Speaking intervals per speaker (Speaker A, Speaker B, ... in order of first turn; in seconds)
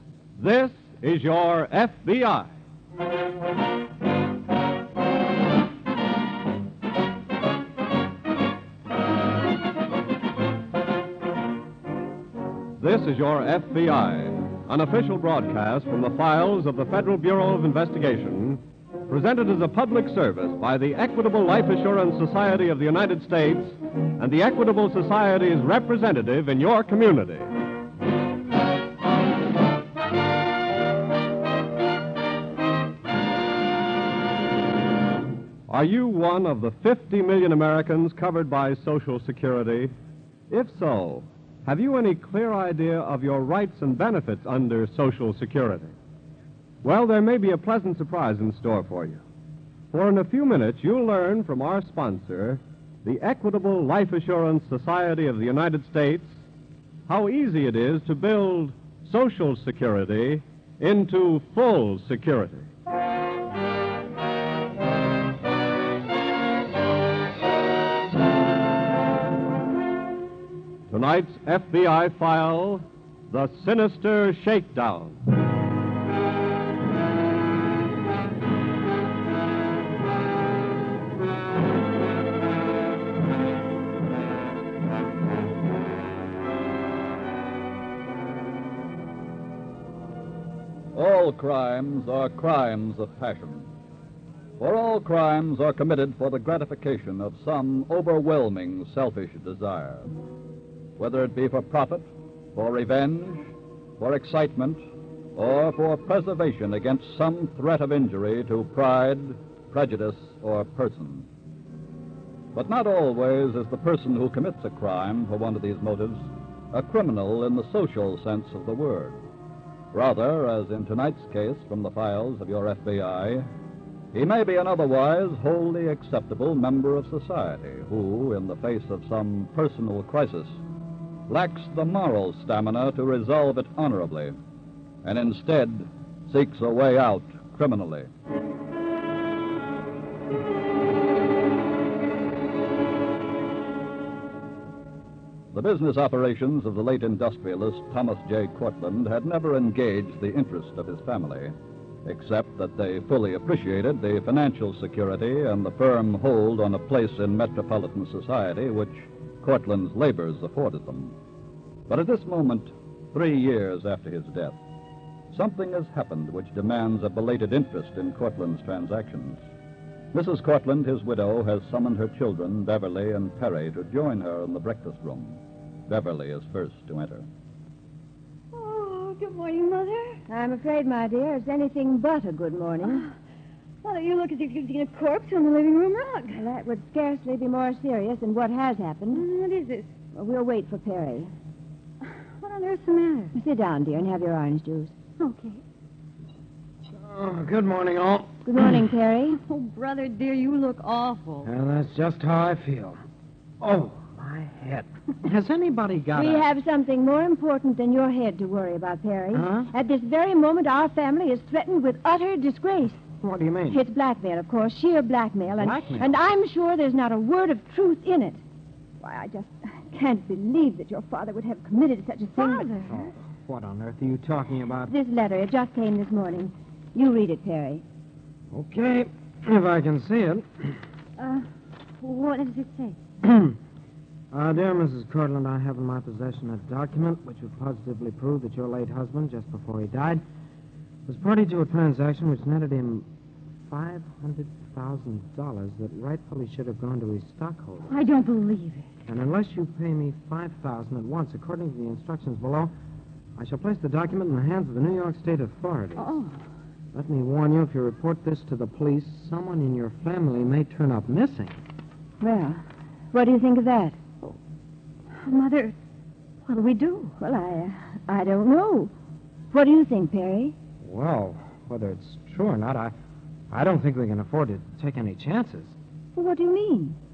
Speaker A: 0.4-2.5, 12.8-27.5, 35.7-39.9, 40.5-45.9, 46.8-49.2, 49.9-56.4, 57.1-62.7, 70.9-75.2
Speaker B: 90.9-93.7, 94.6-100.1, 101.0-103.5, 104.0-104.8, 105.3-111.3, 112.5-119.2, 119.9-123.5, 124.1-130.6, 131.3-134.3, 135.0-138.1, 145.5-161.1, 161.9-164.6, 165.3-169.4, 170.1-177.3
Speaker C: 178.5-180.2, 182.8-183.1, 183.8-186.4, 189.1-189.9, 192.4-193.3, 195.2-195.6, 199.3-201.5, 222.3-223.1, 231.2-231.5, 232.0-233.0, 247.9-248.9, 255.9-256.4, 265.1-265.7, 266.4-267.1
Speaker D: 180.3-183.0, 186.3-189.2, 190.1-191.3, 193.3-194.9, 198.4-199.4, 206.1-213.1, 213.7-218.4, 219.0-222.7, 224.9-227.8, 262.2-264.0, 267.2-268.9, 269.5-270.6, 276.1-277.0
Speaker E: 197.0-198.3, 201.4-203.0, 203.6-206.4, 209.3-209.7, 213.2-213.8, 215.6-216.1, 222.9-224.9, 228.5-230.5, 233.2-233.5, 234.3-240.2, 241.1-243.1, 243.7-248.0, 249.1-252.7, 253.4-256.1, 256.9-261.6, 270.8-272.9, 273.5-275.8